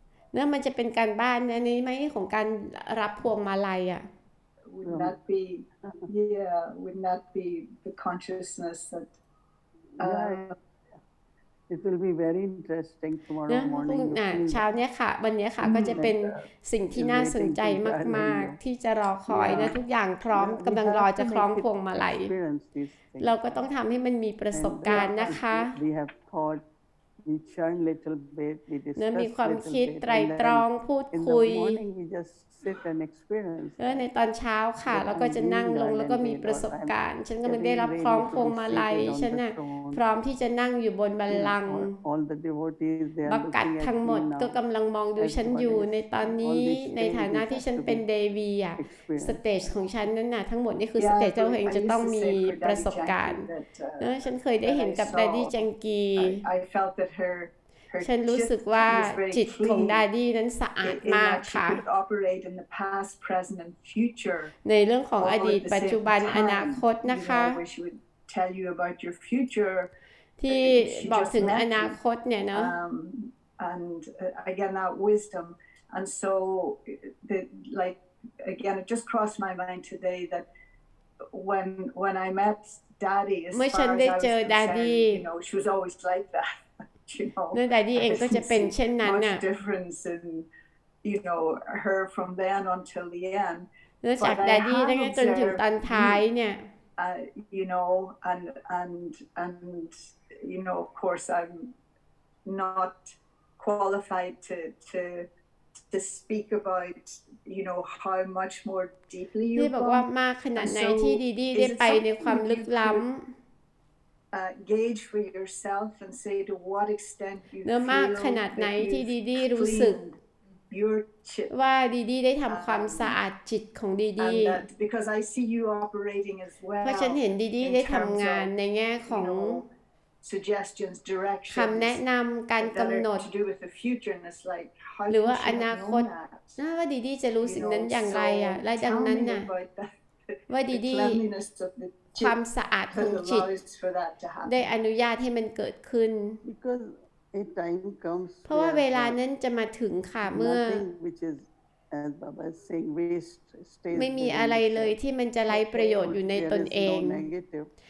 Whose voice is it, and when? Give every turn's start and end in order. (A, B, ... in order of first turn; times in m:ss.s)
0:00.3-0:04.1 A
0:04.7-0:09.1 B
0:04.8-0:05.1 C
0:05.8-0:06.1 C
0:10.0-0:10.5 B
0:10.0-0:11.0 C
0:11.7-0:14.6 C
0:13.5-0:22.3 A
0:15.6-0:16.0 B
0:15.9-0:18.6 C
0:19.3-0:19.8 C
0:19.4-0:19.7 B
0:20.3-0:23.6 C
0:23.2-0:25.7 A
0:24.5-0:26.6 C
0:27.2-0:34.0 C
0:29.0-0:31.8 A
0:33.8-0:41.9 A
0:34.9-0:40.0 C
0:41.3-0:44.6 C
0:43.3-0:53.5 A
0:45.2-0:48.0 C
0:48.8-0:49.7 C
0:51.0-0:54.1 B
0:54.0-0:56.4 A
0:54.6-0:55.6 B
0:56.2-1:00.0 B
0:58.0-1:01.8 A
1:00.8-1:04.5 B
1:04.6-1:07.6 A
1:05.2-1:09.9 B
1:10.4-1:12.7 A
1:10.5-1:12.0 B
1:12.5-1:20.5 B
1:21.3-1:26.4 B
1:23.5-1:25.2 A
1:27.0-1:30.5 B
1:27.5-1:29.4 A
1:31.0-1:33.7 B
1:34.0-1:36.7 A
1:34.2-1:36.2 B
1:37.0-1:41.7 B
1:42.4-1:45.3 B
1:45.9-1:53.0 B
1:49.5-1:53.3 A
1:54.3-2:00.2 B
1:57.6-2:00.0 A
2:00.7-2:01.5 B
2:01.5-2:04.6 A
2:02.5-2:03.2 B
2:04.2-2:08.5 B
2:06.8-2:09.6 A
2:09.0-2:09.7 B
2:10.2-2:12.0 B
2:11.5-2:13.2 A
2:12.6-2:16.6 B
2:15.1-2:19.5 A
2:17.4-2:19.9 B
2:20.5-2:21.2 A
2:20.7-2:22.4 B
2:22.1-2:23.5 A
2:22.9-2:24.7 B
2:24.4-2:26.4 A
2:26.4-2:29.2 C
2:28.5-2:30.8 A
2:30.2-2:35.0 C
2:33.9-2:37.2 A
2:35.5-2:37.7 C